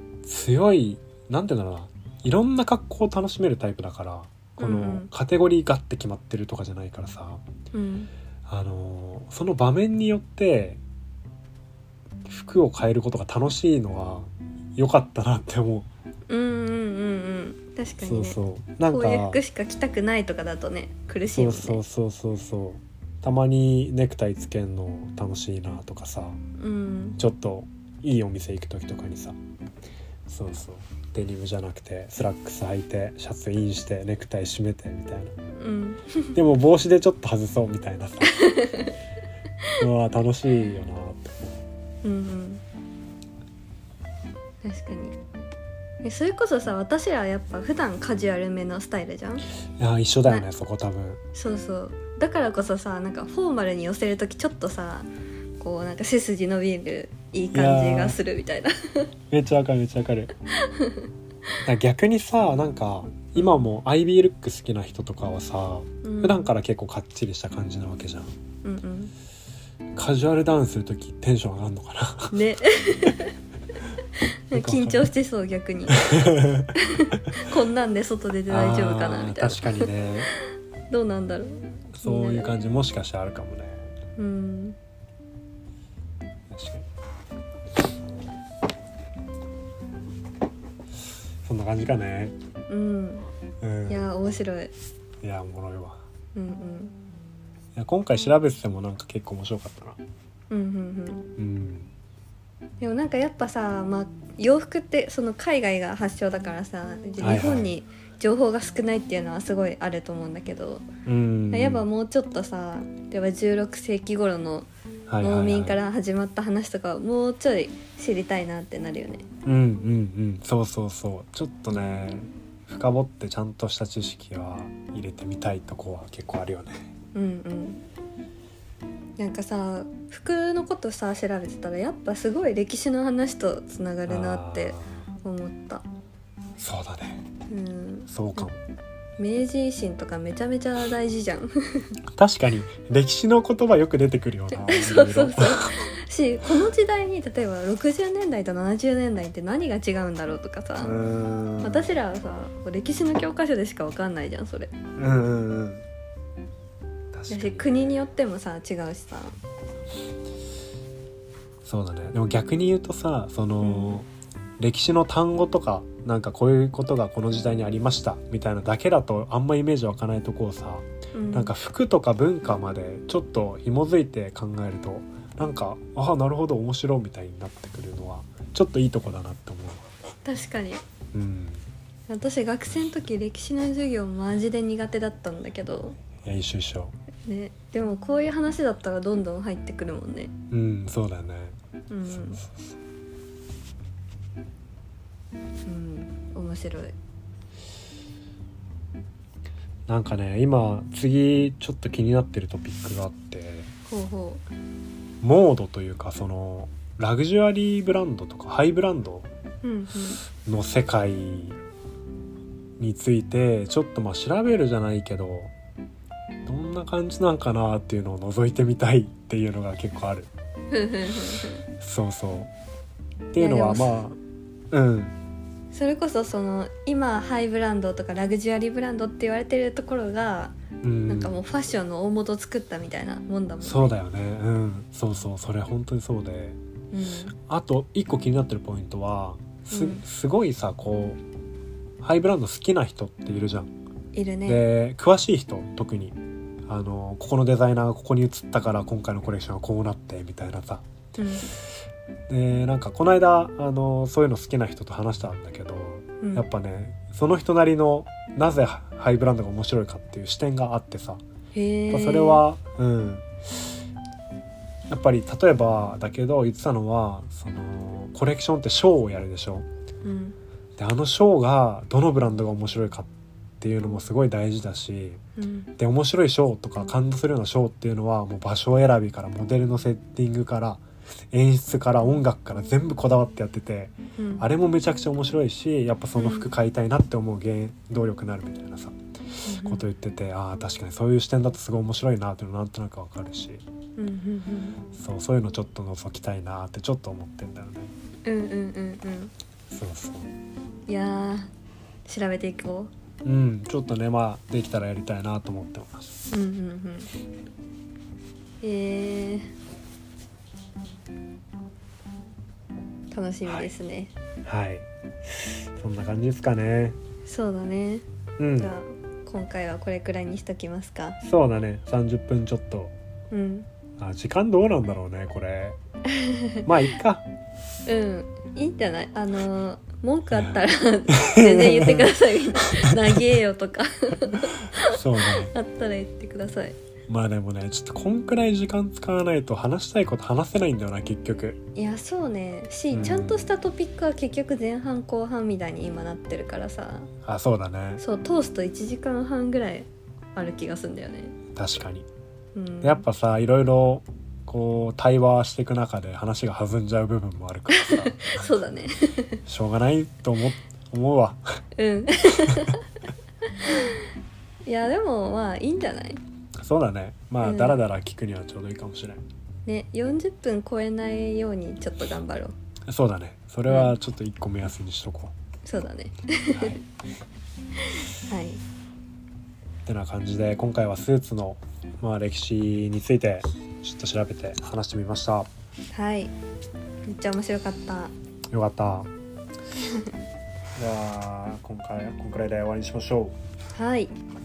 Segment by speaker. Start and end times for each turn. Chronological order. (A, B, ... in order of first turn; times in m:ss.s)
0:00.2-0:07.4 A
0:04.6-0:05.1 B
0:07.7-0:08.1 B
0:08.5-0:10.8 A
0:12.2-0:15.9 A
0:16.3-0:18.4 B
0:18.0-0:19.4 A
0:18.9-0:21.8 B
0:21.3-0:26.4 A
0:26.6-0:27.2 B
0:27.2-0:29.4 A
0:30.3-0:35.3 A
0:35.6-0:36.4 B
0:36.3-0:38.4 A
0:38.3-0:38.9 B
0:39.8-0:41.6 A
0:42.0-0:42.6 B
0:44.6-0:45.2 B
0:46.0-0:49.4 B
0:49.8-0:51.2 A
0:51.3-0:55.1 B
0:55.6-0:59.1 B
0:57.5-0:58.2 A
0:59.3-1:00.3 A
1:00.6-1:01.1 B
1:01.6-1:08.3 A
1:03.4-1:03.7 B
1:06.0-1:06.5 B
1:08.6-1:09.1 B
1:09.9-1:12.4 A
1:12.3-1:13.3 B
1:14.5-1:16.2 B
1:14.5-1:15.1 A
1:15.9-1:17.4 A
1:16.7-1:19.9 B
1:18.5-1:20.3 A
1:20.9-1:22.6 B
1:21.9-1:23.9 A
1:24.2-1:24.8 B
1:26.5-1:26.8 A
1:31.4-1:32.3 A
1:32.7-1:33.3 B
1:33.6-1:34.1 A
1:33.9-1:34.7 B
1:35.2-1:36.0 A
1:36.3-1:36.9 B
1:37.8-1:40.0 A
1:40.5-1:41.3 B
1:41.4-1:41.9 A
1:42.8-1:50.8 B
1:47.2-1:47.7 A
1:51.0-1:51.9 A
1:51.5-1:54.7 B
1:55.1-1:55.8 A
1:55.2-1:59.2 B
1:59.4-2:06.9 A
2:01.7-2:02.2 B
2:07.1-2:07.8 B
2:09.2-2:15.8 B
2:14.1-2:15.0 A
2:16.6-2:17.2 A
2:17.5-2:18.5 B
2:18.1-2:18.6 A
2:19.2-2:21.9 B
2:22.1-2:25.7 A
2:24.5-2:30.9 B
2:30.8-2:32.0 A
2:31.6-2:34.7 B
2:35.0-2:35.8 A
2:37.1-2:38.1 A
2:37.3-2:39.4 B
2:41.6-2:59.8 A
2:43.6-2:44.0 B
2:51.1-2:51.5 B
3:00.2-3:00.8 B
3:01.1-3:01.7 A
3:02.1-3:06.0 B
3:06.2-3:07.0 A
3:07.2-3:10.3 B
3:10.5-3:11.6 A
3:11.9-3:12.4 B
3:12.1-3:12.8 A
3:15.6-3:16.9 B
3:19.9-3:23.7 A
3:23.9-3:24.4 B
3:25.2-3:29.3 A
3:29.6-3:30.2 B
3:30.4-3:31.6 A
3:32.8-3:35.5 A
3:36.4-3:40.3 A
3:40.7-3:41.6 B
3:41.8-3:42.5 A
3:43.3-3:44.2 A
3:43.4-3:44.0 B
3:44.7-3:45.1 A
3:45.7-3:50.6 B
3:50.8-3:51.4 A
3:51.1-3:53.9 B
3:53.6-3:56.6 A
3:56.9-3:57.3 B
3:57.3-4:01.2 A
3:59.7-4:00.0 B
4:02.0-4:03.7 A
4:04.1-4:04.6 B
4:04.4-4:10.9 A
4:11.2-4:11.5 B
4:12.3-4:21.2 A
4:21.5-4:22.4 B
4:21.9-4:23.7 A
4:24.9-4:29.6 A
4:30.0-4:30.4 B
4:30.8-4:35.2 A
4:35.4-4:35.7 B
4:35.8-4:53.6 A
4:44.2-4:44.4 B
4:46.2-4:46.5 B
4:49.5-4:49.8 B
4:54.0-4:54.8 B
4:54.9-4:57.9 A
4:58.2-4:59.3 B
4:59.7-5:00.3 A
5:00.9-5:01.5 B
5:02.0-5:02.9 B
5:03.2-5:06.2 A
5:06.3-5:07.1 B
5:08.6-5:09.5 B
5:13.1-5:14.1 B
5:14.4-5:17.0 A
5:17.3-5:18.0 B
5:18.4-5:18.7 A
5:18.6-5:21.2 B
5:21.2-5:22.9 A
5:23.3-5:23.7 B
5:24.0-5:25.8 A
5:26.1-5:26.6 B
5:26.6-5:27.2 A
5:27.9-5:36.8 B
5:30.3-5:30.6 A
5:31.1-5:32.1 A
5:32.7-5:33.2 A
5:34.7-5:35.5 A
5:37.1-5:41.6 A
5:41.8-5:47.1 B
5:42.9-5:43.4 A
5:47.2-5:48.0 A
5:48.0-5:51.4 B
5:51.5-5:52.1 A
5:52.5-5:53.0 B
5:52.8-5:58.5 A
5:57.7-5:59.4 B
5:59.4-6:01.6 A
6:01.8-6:02.8 B
6:02.5-6:02.7 A
6:03.6-6:04.1 B
6:04.6-6:06.2 B
6:06.6-6:09.2 A
6:07.4-6:07.8 B
6:09.6-6:12.5 B
6:12.9-6:15.3 A
6:13.7-6:13.9 B
6:15.6-6:16.8 B
6:16.5-6:16.8 A
6:18.2-6:18.6 B
6:19.8-6:25.5 A
6:25.9-6:26.3 B
6:27.0-6:28.1 B
6:28.5-6:29.1 A
6:30.7-6:33.4 A
6:33.7-6:34.1 B